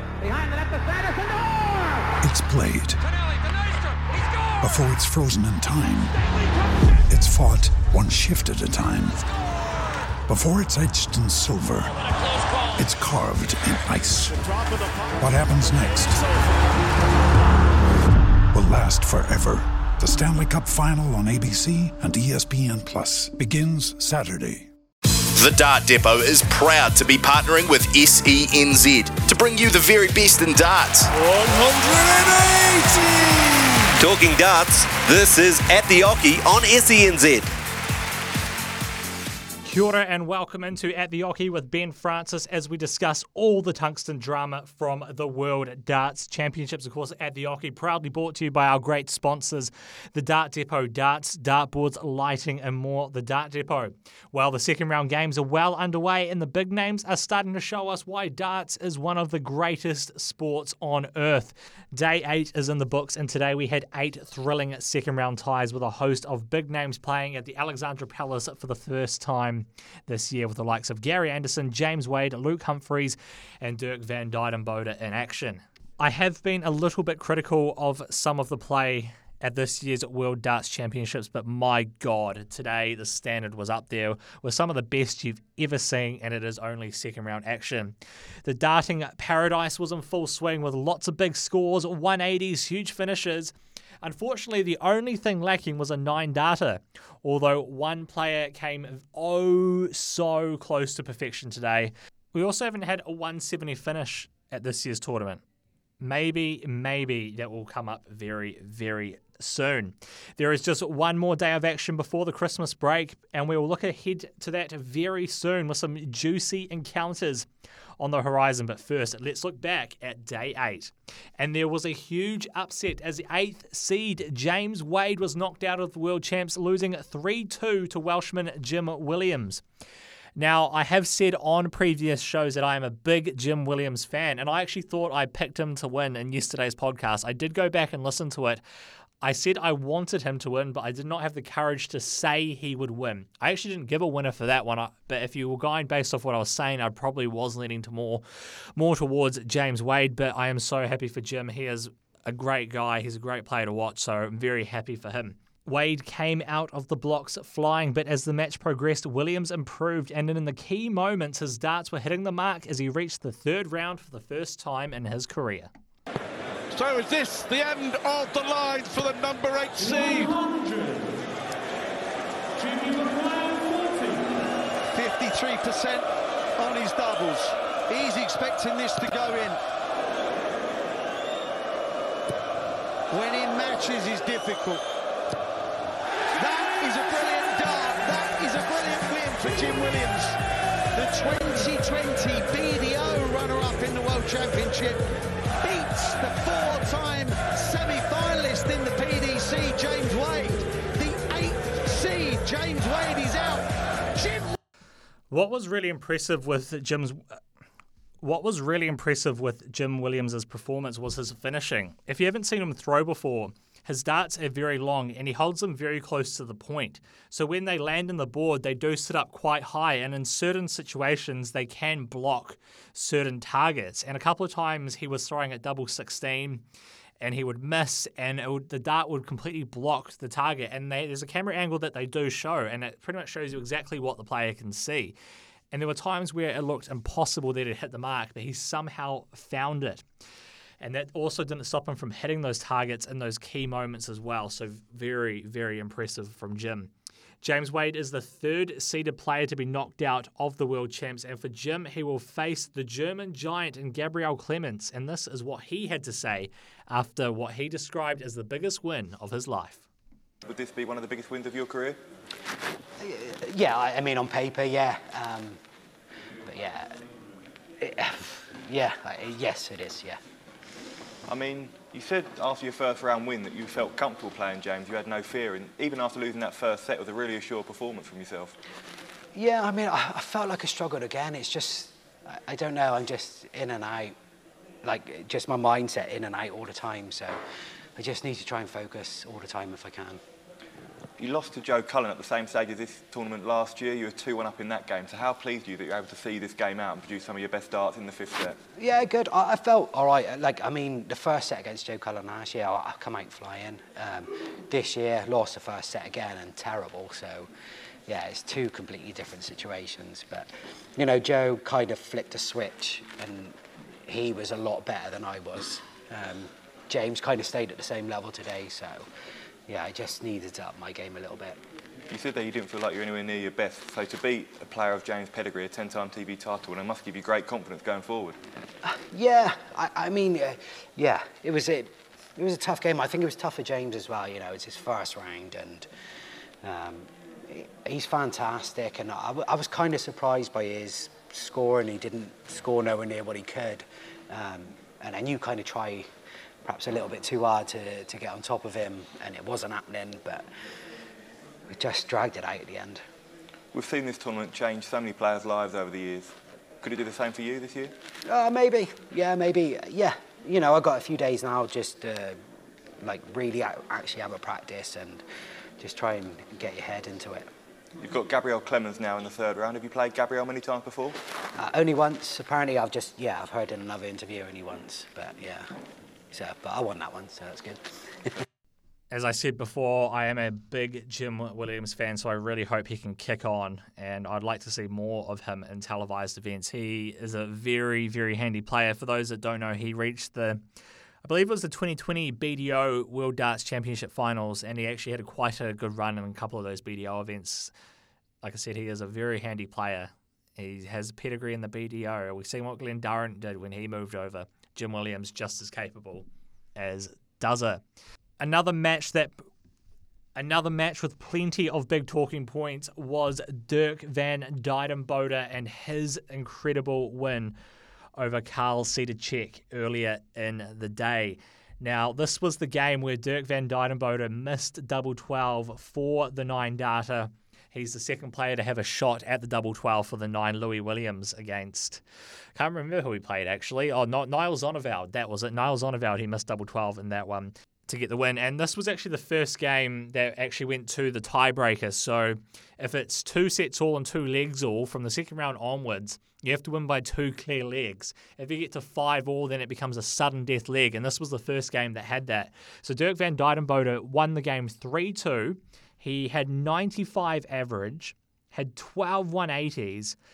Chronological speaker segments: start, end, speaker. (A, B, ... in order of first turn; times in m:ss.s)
0:00.8-0:01.4 A
0:02.2-0:03.0 B
0:04.5-0:06.2 B
0:07.0-0:09.2 B
0:10.3-0:12.0 B
0:12.7-0:14.4 B
0:15.2-0:16.2 B
0:18.5-0:24.7 B
0:25.3-0:31.1 C
0:34.0-0:37.5 C
0:39.6-1:45.4 D
1:46.0-1:57.5 D
1:58.0-2:09.6 D
2:10.4-2:18.6 D
2:19.2-2:28.2 D
2:28.8-2:45.7 D
2:49.8-2:51.1 D
2:52.6-2:54.1 D
2:54.9-2:59.6 A
3:03.1-3:04.8 A
3:06.4-3:10.4 A
3:10.9-3:15.0 A
3:15.6-3:24.5 A
3:25.3-3:27.2 D
3:28.2-3:46.6 D
3:47.2-3:55.2 D
3:55.7-4:00.0 D
4:00.8-4:06.9 D
4:07.4-4:19.8 D
4:20.4-4:22.0 E
4:23.0-4:25.6 F
4:26.4-4:26.9 F
4:27.8-4:30.2 F
4:31.3-4:38.6 E
4:39.3-4:44.1 F
4:44.8-4:47.4 F
4:48.0-4:50.2 F
4:51.2-4:58.6 E
4:58.8-5:07.5 F
5:08.1-5:13.5 F
5:14.1-5:19.0 F
5:19.7-5:21.6 F
5:22.1-5:28.4 E
5:28.8-5:35.9 F
5:36.6-5:46.1 F
5:46.6-5:50.4 F
5:51.7-5:53.0 F
5:53.7-5:57.9 E
5:58.2-6:02.4 F
6:03.0-6:05.2 F
6:05.8-6:07.5 F
6:08.0-6:11.2 E
6:11.6-6:15.6 F
6:16.3-6:18.3 F
6:19.1-6:30.6 D
6:31.2-6:37.7 D
6:38.4-6:47.8 D
6:48.4-6:49.4 D
6:50.4-6:57.5 D
6:58.2-7:12.0 D
7:12.5-7:40.2 D